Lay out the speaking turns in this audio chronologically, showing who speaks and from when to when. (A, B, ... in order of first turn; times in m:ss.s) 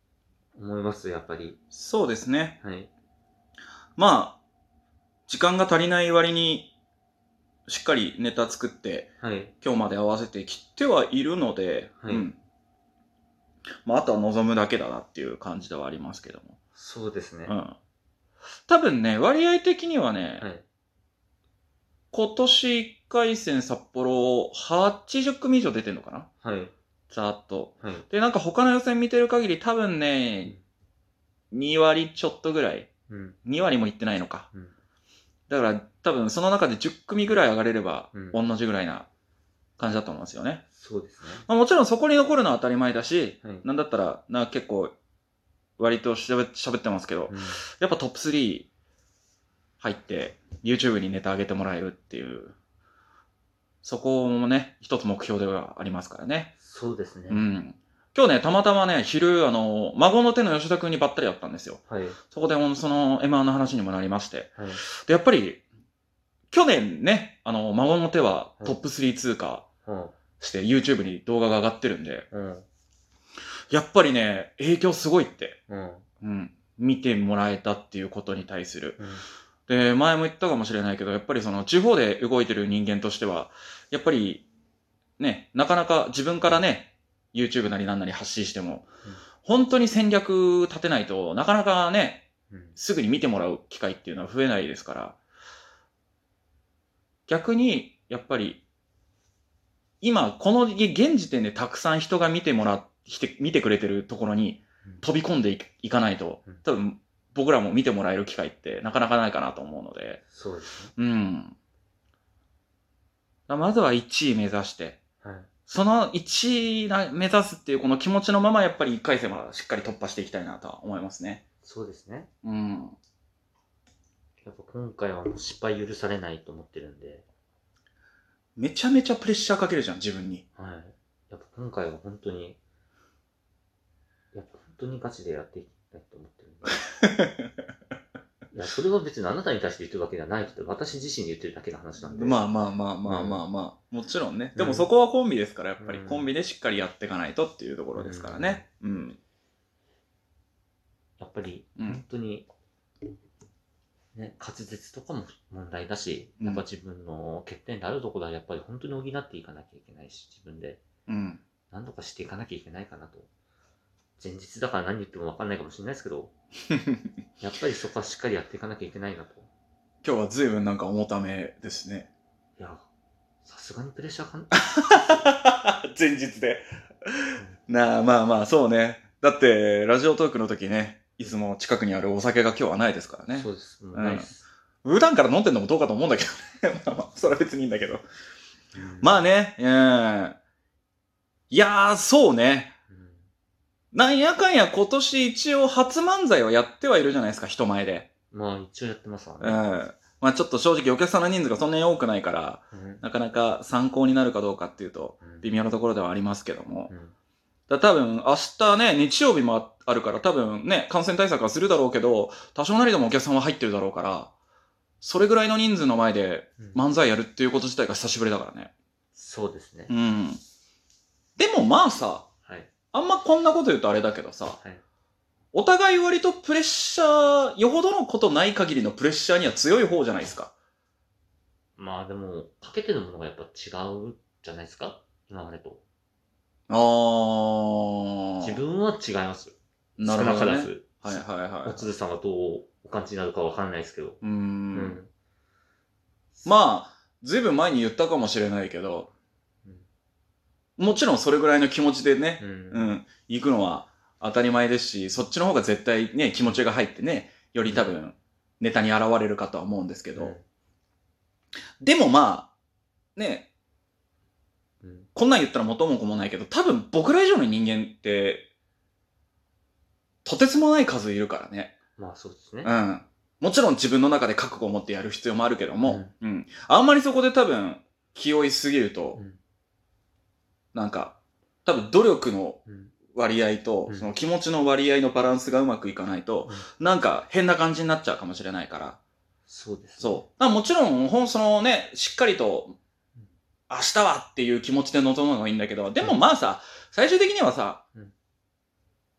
0:00.6-0:01.6 A
0:01.7-0:02.6 B
0:02.6-0:02.9 A
0:04.0-0:04.4 B
0:05.3-0:06.7 B
0:07.7-0:09.1 B
0:09.2-0:09.5 A
0:09.6-0:12.4 B
0:12.0-0:12.3 A
0:13.8-0:16.6 B
0:16.8-0:17.6 A
0:17.5-0:17.8 B
0:18.7-0:20.4 B
0:20.4-0:20.6 A
0:22.1-0:26.3 B
0:26.4-0:26.7 A
0:27.1-0:30.6 B
0:27.8-0:28.1 A
0:31.5-0:32.9 B
0:33.1-0:33.4 A
0:33.5-0:34.5 B
0:35.5-0:39.1 B
0:39.8-0:40.6 B
0:40.8-0:41.5 A
0:41.5-0:44.9 B
0:45.8-0:48.7 B
0:47.3-0:47.6 A
0:49.8-0:52.5 B
0:53.8-0:56.5 B
0:56.6-0:57.4 A
0:57.3-1:01.8 B
1:01.9-1:02.2 A
1:02.3-1:05.6 B
1:04.6-1:04.8 A
1:06.5-1:09.7 B
1:09.8-1:10.2 A
1:10.4-1:12.3 B
1:12.3-1:12.7 A
1:13.7-1:15.6 B
1:15.7-1:16.0 A
1:16.2-1:19.0 B
1:19.0-1:19.2 A
1:19.7-1:24.4 B
1:25.2-1:28.9 B
1:29.4-1:35.2 B
1:32.5-1:32.8 A
1:37.3-1:38.6 B
1:40.0-1:50.2 B
1:50.3-1:50.9 A
1:51.0-1:51.6 B
1:53.5-1:55.0 B
1:55.2-1:55.5 A
1:55.7-2:01.4 B
2:01.6-2:02.3 A
2:02.4-2:03.0 B
2:04.4-2:07.3 A
2:08.6-2:10.4 B
2:10.6-2:12.6 A
2:14.3-2:16.8 A
2:17.0-2:17.5 B
2:18.5-2:22.5 A
2:22.1-2:29.2 B
2:23.0-2:23.4 A
2:24.6-2:24.9 A
2:25.8-2:26.3 A
2:28.0-2:28.7 A
2:31.2-2:32.5 A
2:31.8-2:32.0 B
2:34.2-2:40.8 A
2:41.1-2:41.4 B
2:41.7-2:43.3 A
2:44.2-2:46.3 A
2:46.7-2:47.0 B
2:47.4-2:49.5 A
2:50.0-2:52.1 B
2:52.6-2:52.9 A
2:53.4-2:55.3 A
2:54.5-3:04.3 B
3:03.3-3:04.4 A
3:04.8-3:08.0 B
3:08.7-3:09.3 A
3:09.0-3:10.4 B
3:11.5-3:12.8 B
3:12.9-3:13.2 A
3:13.9-3:18.1 B
3:18.3-3:19.8 A
3:19.4-3:26.9 B
3:22.7-3:23.0 A
3:25.2-3:25.5 A
3:26.9-3:27.1 A
3:27.7-3:34.3 B
3:35.0-3:38.7 B
3:39.2-3:39.9 A
3:39.9-3:40.4 B
3:41.4-3:42.3 B
3:42.4-3:42.7 A
3:42.9-3:44.6 B
3:45.5-3:50.5 B
3:51.8-3:55.8 A
3:56.7-3:58.6 B
3:58.4-4:05.1 A
4:00.0-4:01.9 B
4:04.2-4:05.0 B
4:06.4-4:09.1 B
4:10.8-4:20.4 B
4:12.4-4:13.0 A
4:20.2-4:20.4 A
4:21.8-4:22.5 B
4:23.2-4:23.5 B
4:24.8-4:25.1 A
4:25.2-4:28.5 B
4:30.2-4:31.8 B
4:32.0-4:32.7 A
4:32.6-4:39.2 B
4:35.8-4:36.1 A
4:40.7-4:42.6 B
4:42.7-4:43.0 A
4:43.1-4:49.0 B
4:49.5-4:50.3 A
4:50.0-4:52.8 B
4:53.7-4:57.8 B